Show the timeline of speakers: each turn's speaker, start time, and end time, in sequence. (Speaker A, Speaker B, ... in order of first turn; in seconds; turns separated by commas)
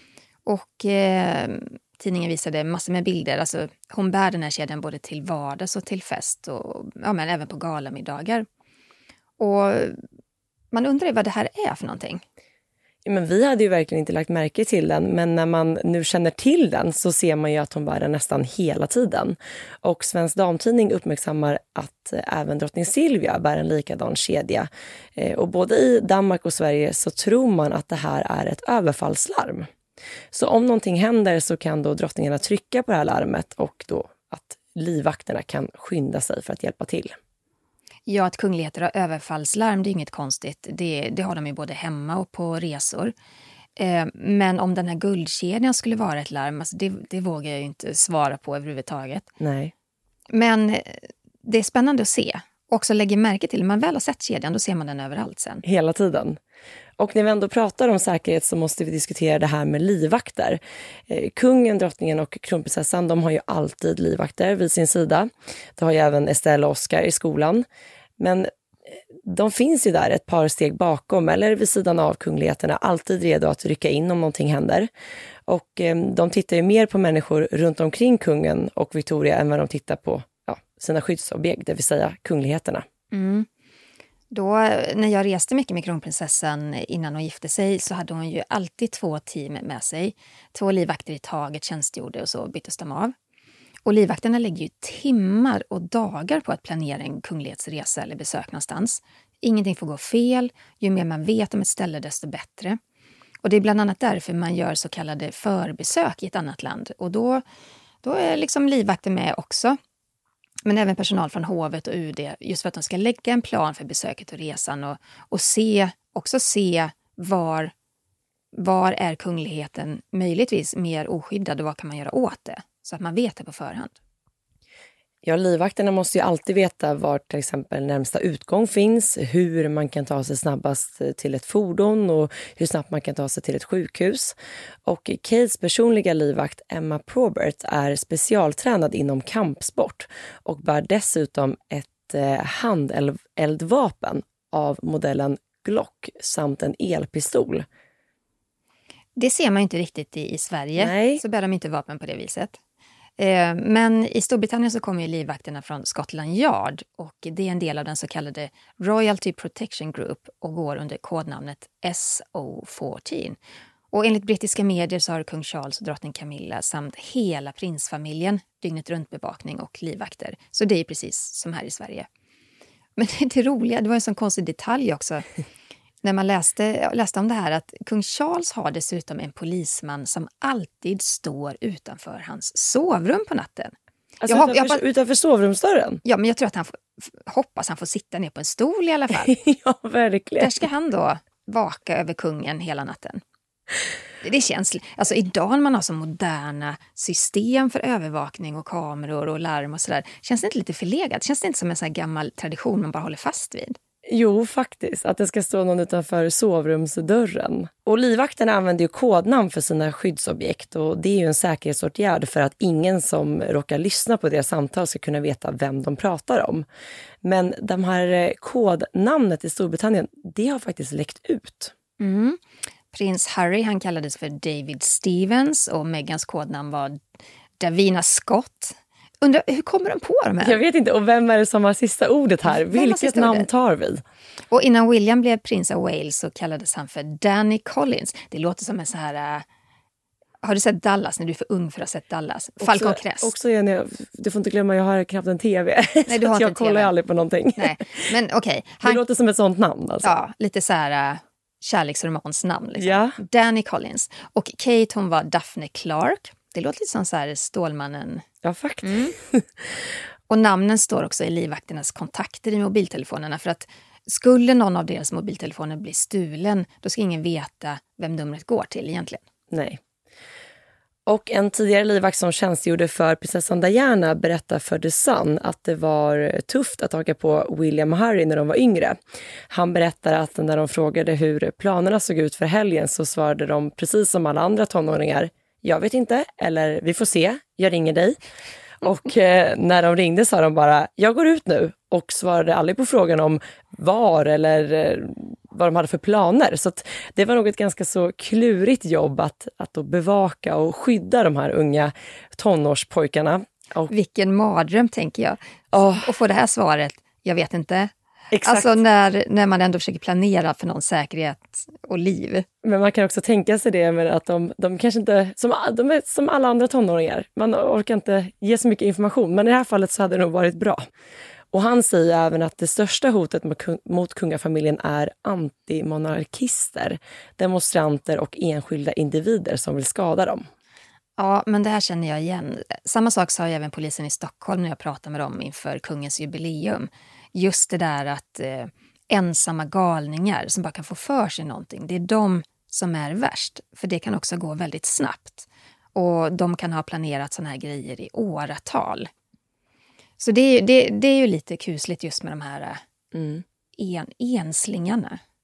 Speaker A: 0.5-8.5, Speaker A: 9.4-10.0, Speaker A: 10.7-12.2, Speaker B: 13.1-29.7, Speaker B: 30.3-37.2, Speaker A: 38.1-43.1, Speaker A: 43.8-49.3, Speaker B: 49.4-49.7, Speaker A: 50.3-55.6, Speaker B: 55.6-56.4, Speaker B: 57.0-67.7, Speaker B: 68.2-74.9, Speaker B: 75.5-82.9, Speaker A: 83.1-83.5, Speaker A: 84.3-93.1, Speaker A: 93.8-102.8, Speaker A: 103.4-107.4, Speaker A: 108.0-109.8, Speaker A: 110.7-117.7, Speaker A: 118.5-124.0, Speaker B: 125.2-134.3, Speaker B: 134.9-147.7, Speaker A: 149.2-152.6, Speaker B: 150.8-151.2, Speaker A: 153.2-163.4, Speaker A: 163.9-172.1, Speaker A: 173.0-175.3, Speaker A: 176.0-184.8, Speaker B: 184.2-186.0, Speaker A: 186.1-189.3, Speaker B: 189.2-190.6, Speaker A: 190.4-193.2, Speaker A: 194.2-203.8, Speaker B: 204.1-216.7, Speaker B: 217.2-221.7, Speaker A: 222.0-222.4, Speaker A: 222.9-227.0, Speaker A: 227.6-230.6, Speaker B: 230.4-234.0, Speaker A: 232.5-233.5, Speaker A: 234.5-239.4, Speaker A: 240.4-243.3, Speaker B: 242.6-248.1, Speaker A: 246.1-246.9, Speaker A: 247.6-249.0, Speaker B: 248.8-250.1, Speaker A: 250.0-258.2, Speaker B: 252.8-253.2, Speaker B: 258.4-259.8, Speaker A: 258.8-259.1, Speaker A: 260.3-269.2, Speaker B: 269.5-269.8, Speaker B: 271.1-279.0, Speaker B: 279.5-288.2, Speaker B: 288.8-303.9, Speaker A: 303.9-305.4, Speaker B: 305.7-306.1, Speaker A: 305.9-312.5, Speaker B: 308.3-308.8, Speaker B: 312.6-320.8, Speaker B: 321.5-330.5, Speaker A: 331.2-349.1, Speaker A: 350.2-352.8, Speaker B: 353.1-353.4, Speaker A: 353.8-355.2